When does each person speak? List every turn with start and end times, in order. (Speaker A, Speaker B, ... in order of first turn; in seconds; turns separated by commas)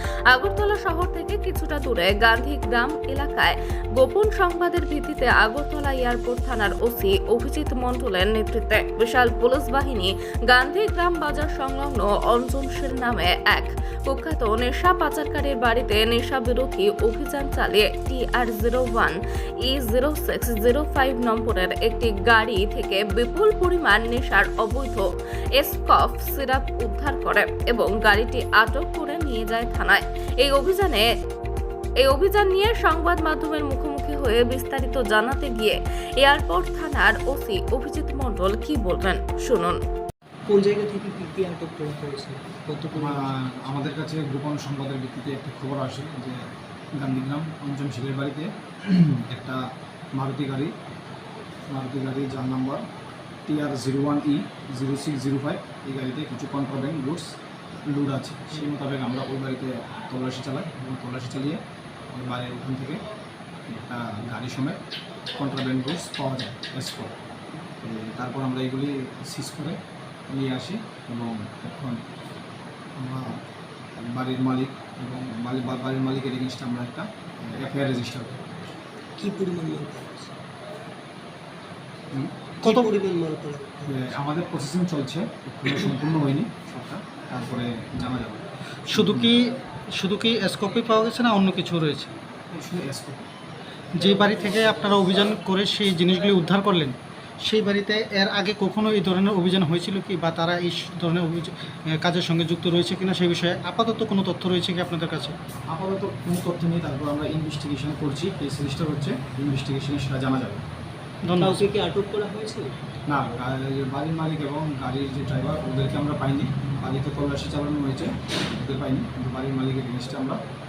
Speaker A: 0.3-31.1, Speaker A: 32.0-39.8, Speaker B: 40.5-43.4, Speaker C: 42.9-46.4, Speaker C: 47.0-49.6, Speaker C: 50.1-50.7, Speaker C: 51.7-52.8, Speaker C: 53.5-57.3, Speaker C: 57.9-61.6, Speaker C: 62.1-63.0, Speaker C: 63.7-64.8, Speaker C: 65.3-67.1, Speaker C: 67.8-69.8, Speaker C: 70.3-72.0, Speaker C: 73.0-73.4, Speaker C: 74.0-78.8, Speaker B: 79.2-80.3, Speaker B: 82.6-84.1, Speaker C: 83.9-89.3, Speaker D: 88.9-92.1, Speaker C: 92.5-93.2, Speaker D: 93.9-105.3, Speaker C: 105.7-110.6, Speaker D: 111.2-111.7, Speaker B: 111.4-112.7, Speaker C: 113.1-120.4